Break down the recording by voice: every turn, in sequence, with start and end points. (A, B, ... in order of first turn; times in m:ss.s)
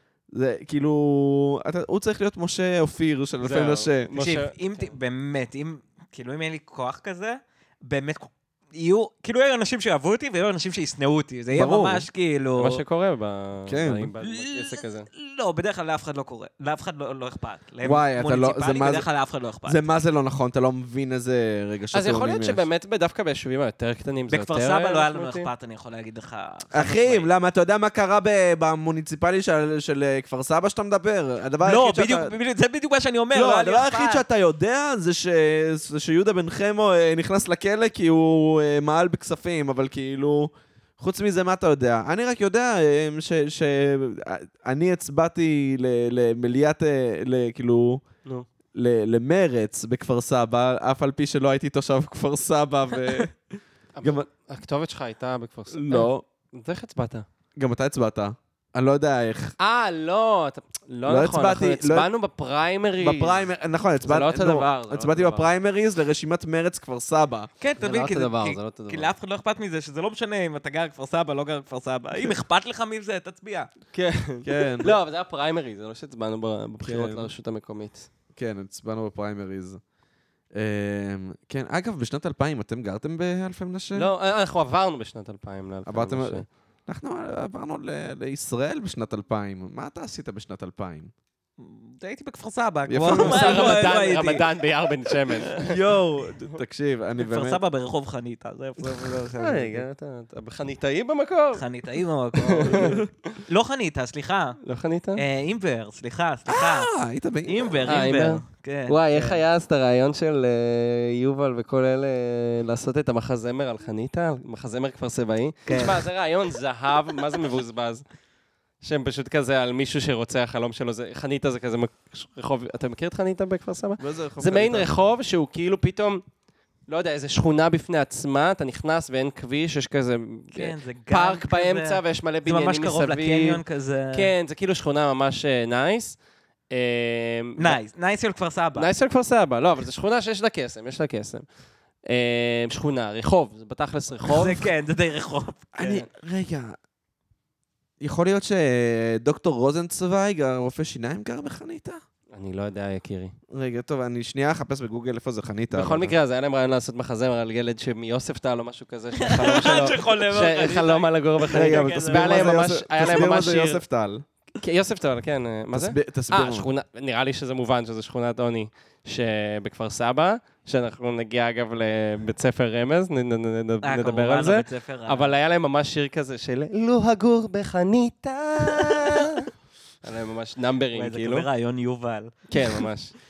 0:00.3-0:04.1 A
0:03.4-0:04.9 B
0:04.1-0:12.8 C
0:11.5-0:12.0 A
0:12.6-0:15.1 B
0:13.7-0:14.1 A
0:14.2-0:19.8 C
0:17.8-0:19.0 A
0:19.7-0:22.6 A
0:21.9-0:25.5 B
0:24.3-0:27.3 C
0:26.7-0:32.3 A
0:31.6-0:34.2 C
0:33.3-0:48.0 A
0:48.7-0:54.3 A
0:53.9-0:57.2 B
0:55.7-0:56.2 A
0:57.6-0:59.5 A
0:59.6-1:03.5 B
1:01.1-1:02.1 A
1:03.0-1:07.5 A
1:04.0-1:05.5 B
1:07.6-1:13.7 C
1:07.8-1:09.1 B
1:13.9-1:18.1 B
1:14.4-1:15.0 A
1:16.8-1:17.3 A
1:18.3-1:19.8 A
1:20.5-1:24.1 A
1:24.0-1:26.4 B
1:25.9-1:31.1 A
1:31.6-1:34.4 C
1:32.9-1:33.8 A
1:33.1-1:35.7 B
1:35.5-1:36.0 C
1:35.6-1:37.6 A
1:37.3-1:39.8 C
1:39.4-1:41.6 B
1:41.5-1:44.6 C
1:42.4-1:43.4 B
1:42.6-1:43.0 A
1:44.6-1:45.2 B
1:45.2-1:46.9 C
1:46.5-1:48.0 A
1:47.4-1:49.4 C
1:47.8-1:58.0 B
1:55.7-1:56.0 C
1:58.8-2:06.2 B
2:04.0-2:04.9 A
2:06.9-2:13.6 B
2:10.5-2:14.3 C
2:14.1-2:16.2 B
2:16.7-2:17.8 B
2:17.6-2:18.9 C
2:18.8-2:21.4 B
2:22.0-2:24.7 B
2:24.3-2:26.0 C
2:25.8-2:26.8 A
2:28.0-2:32.0 A
2:32.3-2:33.3 B
2:33.5-2:36.1 A
2:35.7-2:43.8 B
2:39.2-2:42.5 C
2:41.5-2:44.2 A
2:44.6-2:59.5 B
2:45.7-2:46.7 A
2:53.8-2:55.3 C
2:58.8-2:59.3 C
3:00.0-3:01.5 B
3:00.9-3:02.5 C
3:02.5-3:03.1 B